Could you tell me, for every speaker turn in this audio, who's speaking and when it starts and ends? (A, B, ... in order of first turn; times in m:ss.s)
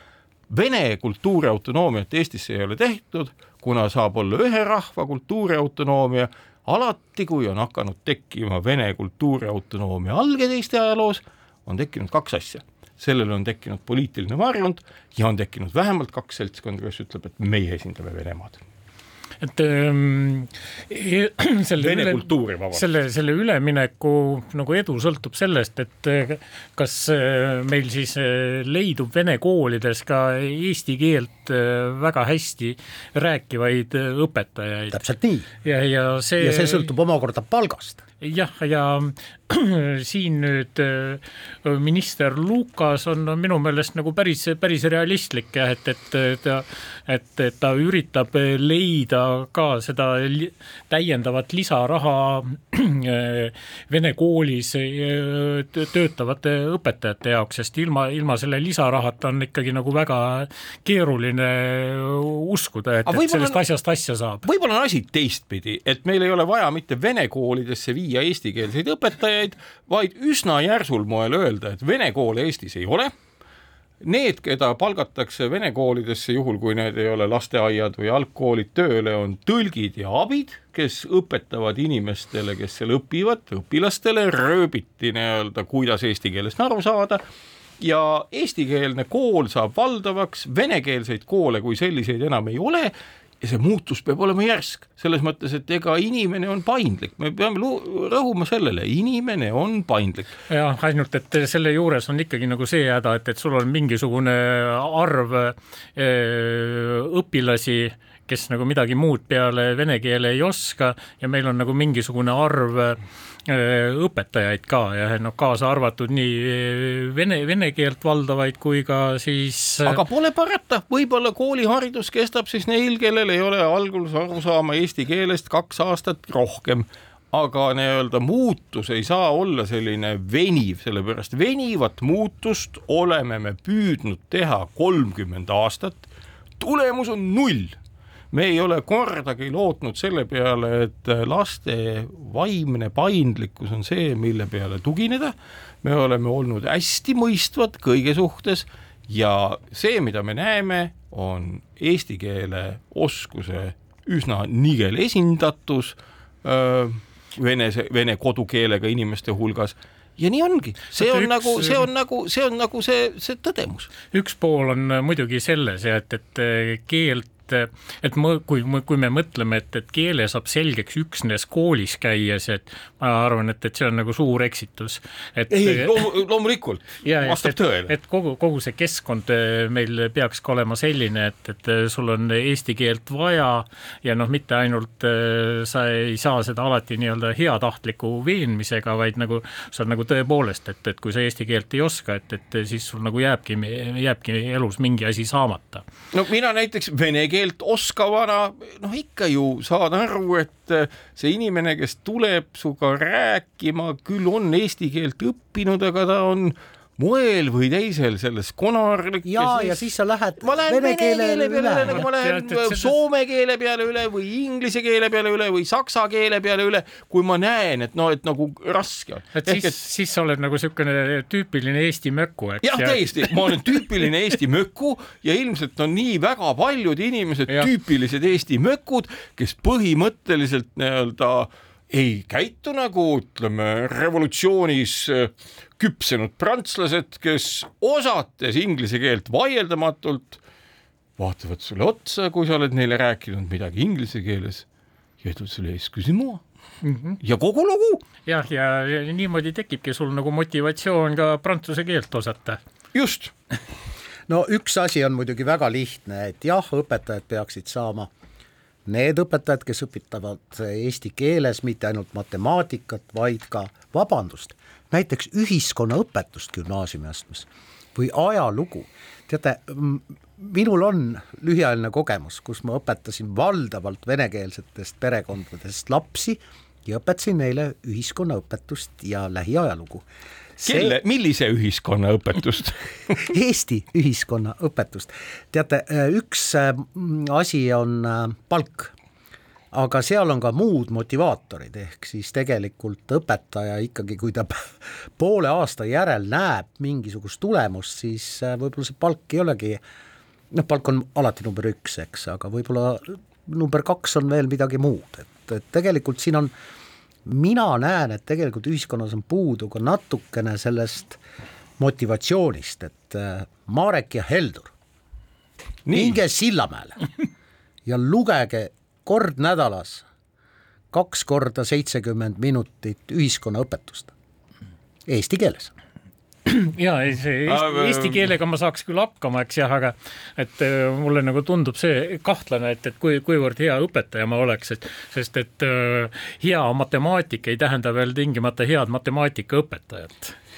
0:00.5-0:18.6 A
0:19.4-0:35.0 B
0:21.8-0:22.9 A
0:34.9-0:35.5 C
0:35.6-0:36.9 B
0:36.4-0:38.0 C
0:38.2-1:04.4 B
1:03.1-1:03.6 A
1:04.4-1:13.1 A
1:14.0-1:27.2 A
1:27.8-1:40.3 A
1:40.5-2:00.0 B
1:59.8-2:16.1 A
2:16.6-2:17.8 A
2:18.3-2:43.9 A
2:41.0-2:41.8 B
2:44.1-2:55.9 B
2:55.5-2:57.9 A
2:57.0-3:15.8 B
3:16.1-3:29.8 A
3:29.2-3:32.0 C
3:30.4-3:39.8 A
3:31.9-3:32.9 B
3:39.4-3:43.0 B
3:42.6-4:00.4 A
4:01.2-4:04.7 A
4:05.2-4:06.4 A
4:06.8-4:07.2 B
4:07.2-4:08.0 A
4:08.3-4:12.6 B
4:12.9-4:13.3 A
4:14.3-4:18.1 C
4:18.9-4:40.0 C
4:40.6-4:41.0 C
4:40.6-4:43.2 A
4:43.2-4:48.9 C
4:49.7-4:59.8 C
5:00.5-5:06.5 C
5:07.2-5:11.2 C
5:11.8-5:14.7 C
5:15.9-5:16.2 A
5:15.9-5:17.0 C
5:17.9-5:20.0 C
5:20.9-5:24.1 C
5:25.1-5:25.7 C
5:26.5-5:40.4 B
5:27.5-5:28.3 A